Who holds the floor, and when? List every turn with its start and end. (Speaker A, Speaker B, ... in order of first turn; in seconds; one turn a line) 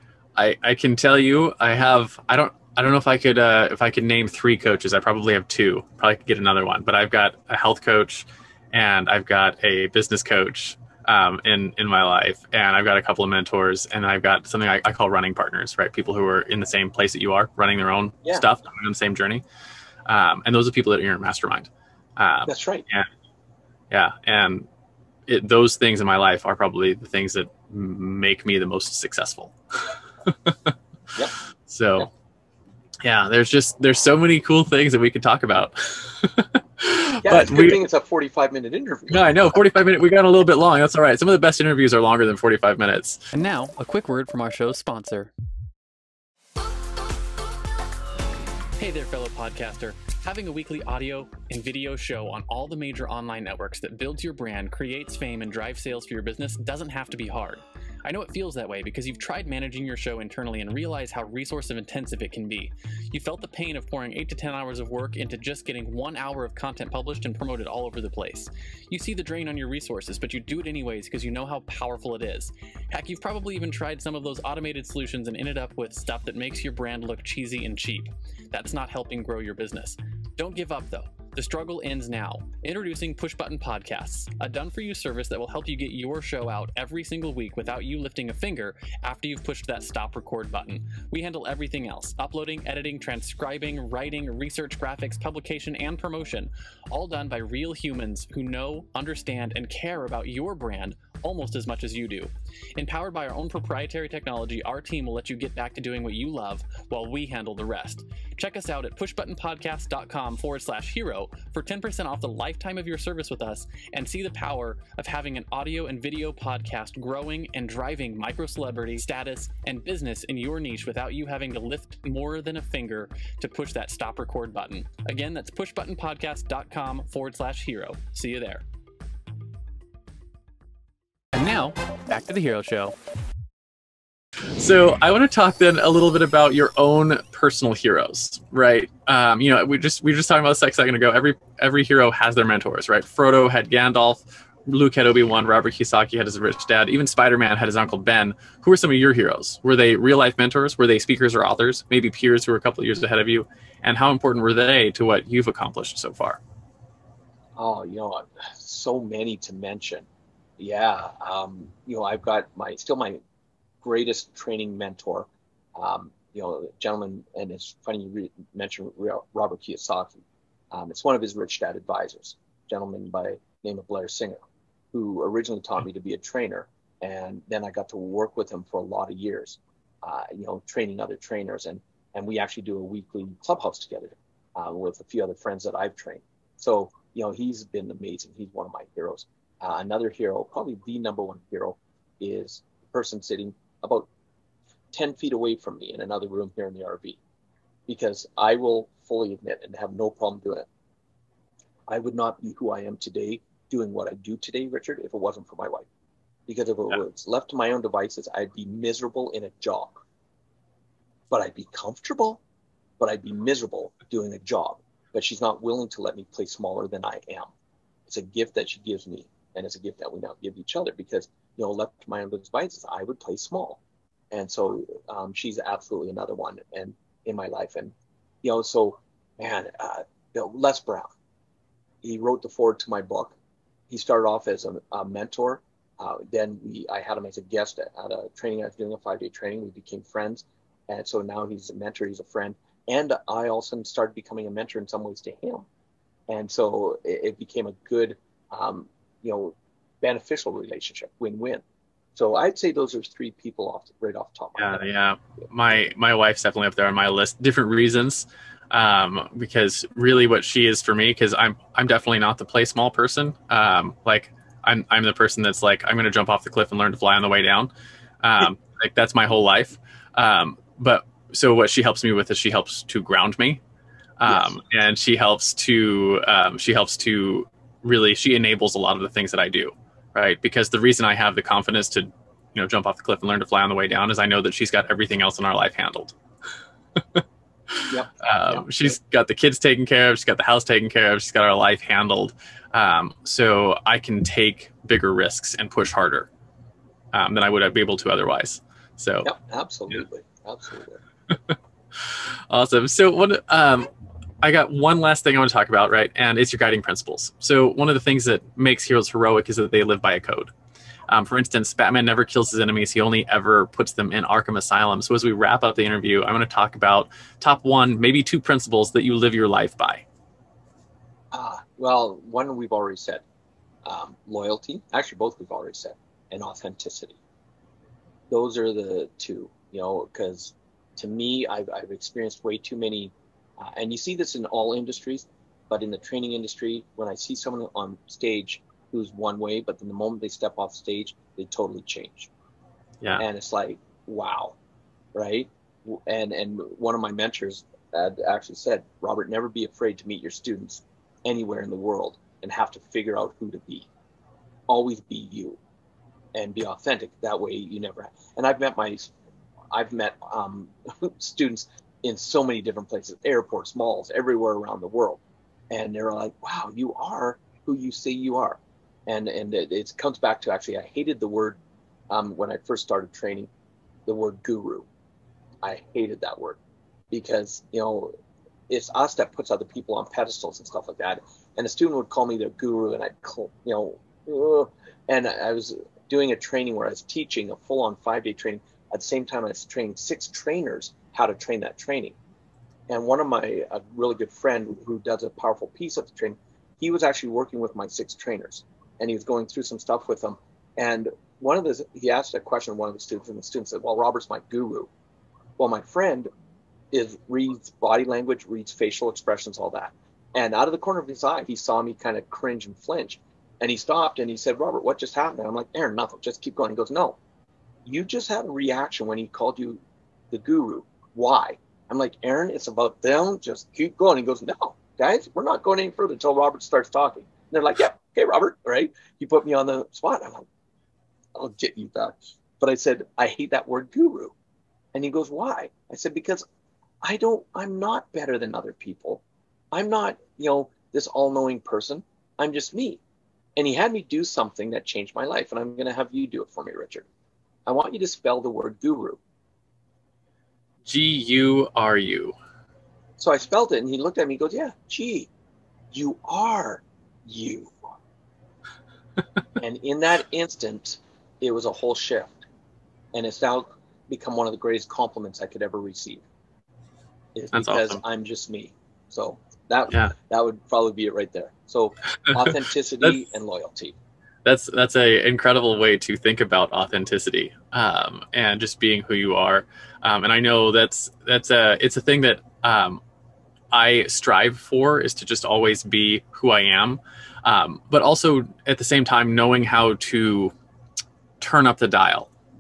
Speaker A: 0.4-19.4
Speaker A: 20.1-23.1
Speaker B: 22.5-22.9
Speaker A: 23.9-24.7
Speaker A: 25.3-30.7
Speaker A: 31.7-32.1
Speaker A: 33.0-37.8
Speaker B: 37.2-39.5
Speaker A: 39.1-43.3
Speaker C: 43.3-45.3
Speaker C: 48.8-128.6
Speaker C: 131.3-132.9
Speaker A: 134.6-156.4
Speaker B: 157.6-160.1
Speaker B: 160.6-163.2
Speaker B: 163.8-170.2
Speaker B: 170.7-174.4
Speaker B: 174.9-194.1
Speaker B: 194.9-197.2
Speaker B: 197.9-200.7
Speaker B: 201.9-205.9
Speaker B: 206.5-210.0
Speaker B: 211.3-212.4
Speaker B: 213.0-217.5
Speaker B: 218.1-223.8
Speaker B: 224.3-231.1
Speaker B: 232.0-233.3
Speaker B: 233.9-245.7
Speaker B: 246.3-251.6
Speaker B: 252.2-254.8
Speaker A: 254.6-267.7
Speaker A: 268.2-273.6
Speaker A: 274.2-286.2
Speaker B: 274.3-274.5
Speaker A: 287.0-296.3
Speaker B: 287.9-288.7
Speaker A: 297.1-299.3
Speaker B: 299.2-301.0
Speaker A: 301.3-310.5
Speaker A: 311.1-320.1
Speaker B: 321.3-323.2
Speaker B: 323.9-327.2
Speaker B: 328.3-342.3
Speaker B: 343.2-344.6
Speaker B: 345.1-353.9
Speaker B: 354.7-355.6
Speaker B: 356.4-359.1
Speaker B: 359.7-371.6
Speaker B: 372.1-373.5
Speaker B: 374.1-374.9
Speaker B: 375.6-376.6
Speaker B: 377.1-378.1
Speaker B: 378.7-392.2
Speaker B: 392.9-404.9
Speaker B: 405.6-406.3
Speaker B: 406.9-417.2
Speaker B: 417.9-430.5
Speaker B: 431.4-434.3
Speaker B: 434.9-436.4
Speaker B: 437.0-443.0
Speaker B: 443.6-447.1
Speaker B: 447.7-449.2
Speaker A: 450.9-452.4
Speaker B: 453.2-455.3
Speaker B: 455.9-457.9
Speaker B: 459.6-462.4
Speaker B: 463.1-466.2
Speaker B: 467.4-474.0
Speaker A: 467.5-468.0
Speaker A: 472.4-473.2
Speaker A: 474.4-483.0
Speaker A: 483.7-490.5
Speaker A: 491.4-492.3